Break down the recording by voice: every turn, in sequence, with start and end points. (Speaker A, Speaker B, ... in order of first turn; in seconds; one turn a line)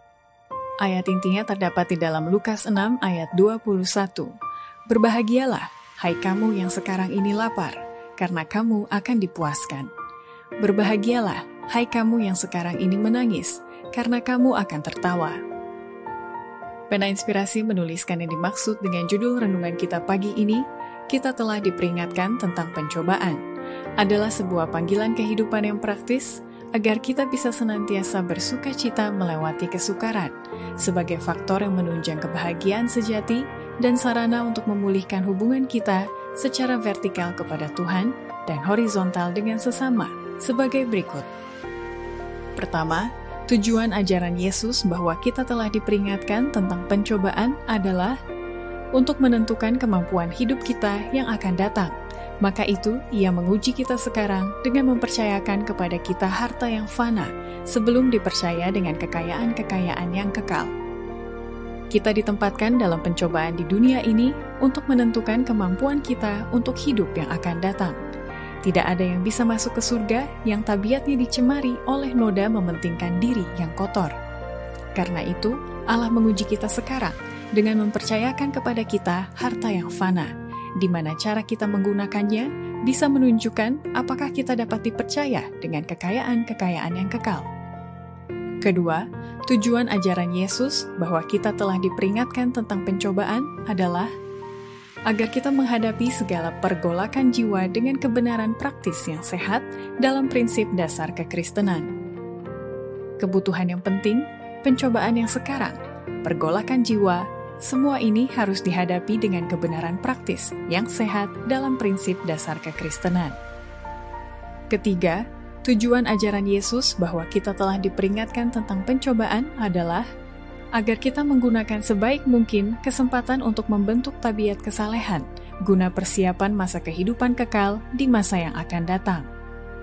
Speaker A: 0.8-4.3
Speaker A: 4.9-9.9
Speaker A: 10.6-15.4
Speaker A: 16.9-23.4
Speaker A: 24.0-41.3
Speaker A: 42.6-48.2
Speaker A: 49.0-60.7
Speaker A: 61.9-68.0
Speaker A: 68.6-74.2
Speaker A: 75.0-87.5
Speaker A: 88.6-94.1
Speaker A: 95.1-101.9
Speaker A: 103.2-113.4
Speaker A: 114.7-120.1
Speaker A: 120.8-129.3